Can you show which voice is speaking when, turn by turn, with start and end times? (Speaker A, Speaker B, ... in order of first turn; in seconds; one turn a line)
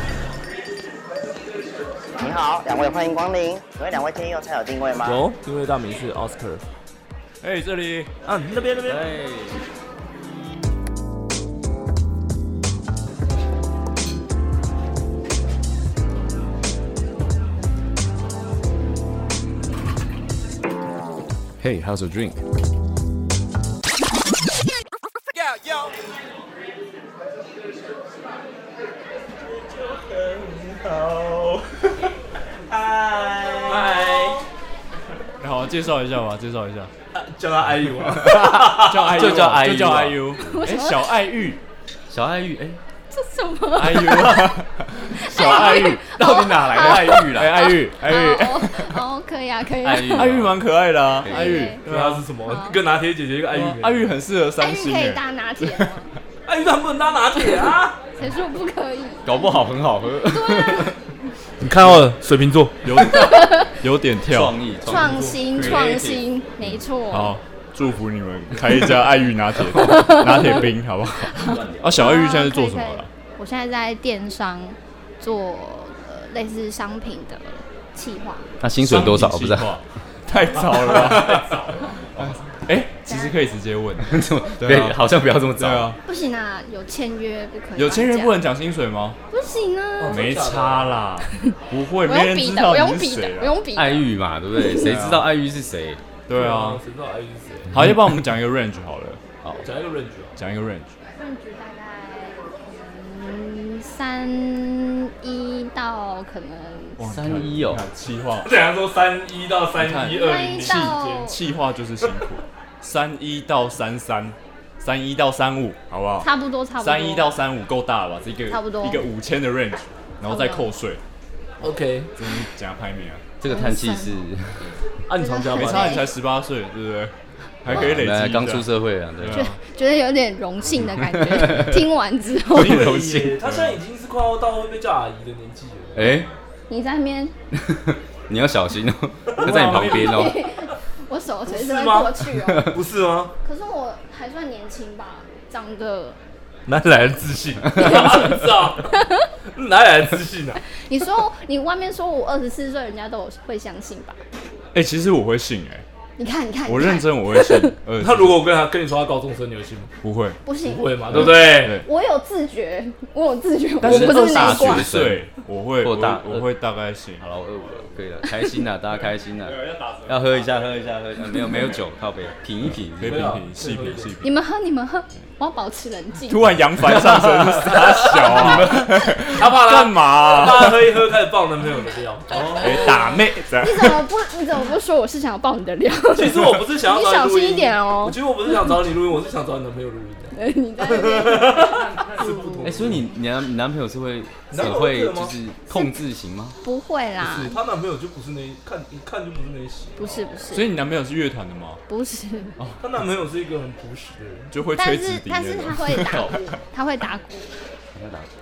Speaker A: 2.2-5.2
Speaker B: 5.0-6.7
Speaker C: 7.4-8.1
Speaker B: 8.2-9.1
Speaker D: 8.8-9.6
Speaker D: 21.6-22.4
Speaker B: 30.0-31.3
Speaker D: 32.7-34.0
Speaker B: 33.6-34.4
Speaker C: 35.4-36.9
Speaker B: 37.1-39.4
Speaker C: 38.0-41.6
Speaker D: 38.2-40.6
Speaker E: 40.4-41.0
Speaker D: 42.1-42.8
Speaker E: 43.1-50.3
Speaker C: 43.7-46.0
Speaker D: 45.4-47.7
Speaker C: 47.3-49.0
Speaker D: 49.8-50.6
Speaker C: 50.0-52.3
Speaker D: 51.2-51.7
Speaker E: 51.2-51.8
Speaker B: 51.8-54.1
Speaker E: 52.4-52.8
Speaker C: 53.5-56.0
Speaker E: 54.6-56.1
Speaker B: 56.5-58.0
Speaker E: 57.4-59.6
Speaker D: 59.2-61.0
Speaker E: 60.2-61.0
Speaker B: 61.6-62.8
Speaker C: 61.7-62.1
Speaker C: 62.8-64.6
Speaker E: 63.0-63.7
Speaker D: 64.2-66.2
Speaker E: 64.8-67.3
Speaker B: 64.9-65.3
Speaker C: 67.1-73.1
Speaker E: 69.8-70.7
Speaker E: 71.2-78.5
Speaker D: 71.3-72.0
Speaker D: 78.6-79.8
Speaker C: 78.8-86.0
Speaker B: 80.6-82.0
Speaker D: 80.9-81.5
Speaker D: 82.1-82.4
Speaker E: 83.0-83.4
Speaker D: 84.0-85.9
Speaker E: 86.0-88.4
Speaker C: 87.8-89.2
Speaker E: 89.3-90.3
Speaker B: 90.0-91.0
Speaker C: 90.1-93.6
Speaker E: 91.3-94.1
Speaker D: 93.7-96.0
Speaker C: 94.8-95.3
Speaker C: 96.3-96.8
Speaker B: 96.3-97.8
Speaker C: 97.7-99.2
Speaker B: 99.6-100.4
Speaker C: 100.4-100.9
Speaker E: 101.2-107.0
Speaker C: 107.0-108.5
Speaker D: 107.1-107.8
Speaker B: 108.4-111.2
Speaker C: 109.8-121.0
Speaker E: 110.0-111.4
Speaker E: 116.2-117.3
Speaker E: 118.5-119.0
Speaker E: 120.2-120.7
Speaker B: 121.6-122.1
Speaker C: 121.6-123.2
Speaker D: 123.4-124.8
Speaker E: 123.5-124.2
Speaker B: 125.1-126.0
Speaker E: 125.1-126.1
Speaker C: 125.5-129.6
Speaker D: 127.7-129.5
Speaker E: 129.3-132.9
Speaker D: 131.0-131.8
Speaker D: 132.5-133.4
Speaker B: 132.6-136.3
Speaker C: 133.4-133.8
Speaker D: 135.9-136.3
Speaker E: 136.7-137.3
Speaker D: 137.5-140.4
Speaker B: 139.3-140.3
Speaker C: 139.4-139.9
Speaker E: 139.7-142.8
Speaker B: 141.4-143.3
Speaker D: 142.4-142.8
Speaker E: 143.4-146.2
Speaker B: 146.7-149.0
Speaker E: 147.8-148.4
Speaker C: 147.8-148.3
Speaker E: 148.9-149.3
Speaker B: 149.5-150.6
Speaker E: 150.7-154.2
Speaker C: 154.7-155.8
Speaker E: 156.2-157.8
Speaker C: 156.7-158.4
Speaker B: 158.0-159.9
Speaker C: 160.0-160.4
Speaker E: 160.4-164.9
Speaker B: 160.6-161.8
Speaker C: 161.1-161.8
Speaker C: 163.8-167.9
Speaker D: 163.8-166.5
Speaker D: 167.2-173.4
Speaker C: 169.4-171.0
Speaker C: 172.7-174.3
Speaker B: 173.0-174.1
Speaker E: 174.2-176.5
Speaker C: 176.2-181.1
Speaker B: 176.9-183.0
Speaker D: 177.1-179.0
Speaker E: 182.3-188.8
Speaker C: 182.5-184.0
Speaker B: 186.1-193.1
Speaker E: 190.3-192.6
Speaker C: 191.6-192.9
Speaker D: 192.6-196.6
Speaker B: 194.5-195.3
Speaker E: 195.7-195.9
Speaker E: 196.6-197.6
Speaker B: 197.2-200.3
Speaker E: 200.0-200.7
Speaker C: 200.5-201.8
Speaker E: 201.9-202.6
Speaker C: 202.6-202.8
Speaker B: 202.8-204.5
Speaker C: 204.5-206.6
Speaker E: 204.8-207.5
Speaker D: 207.9-208.3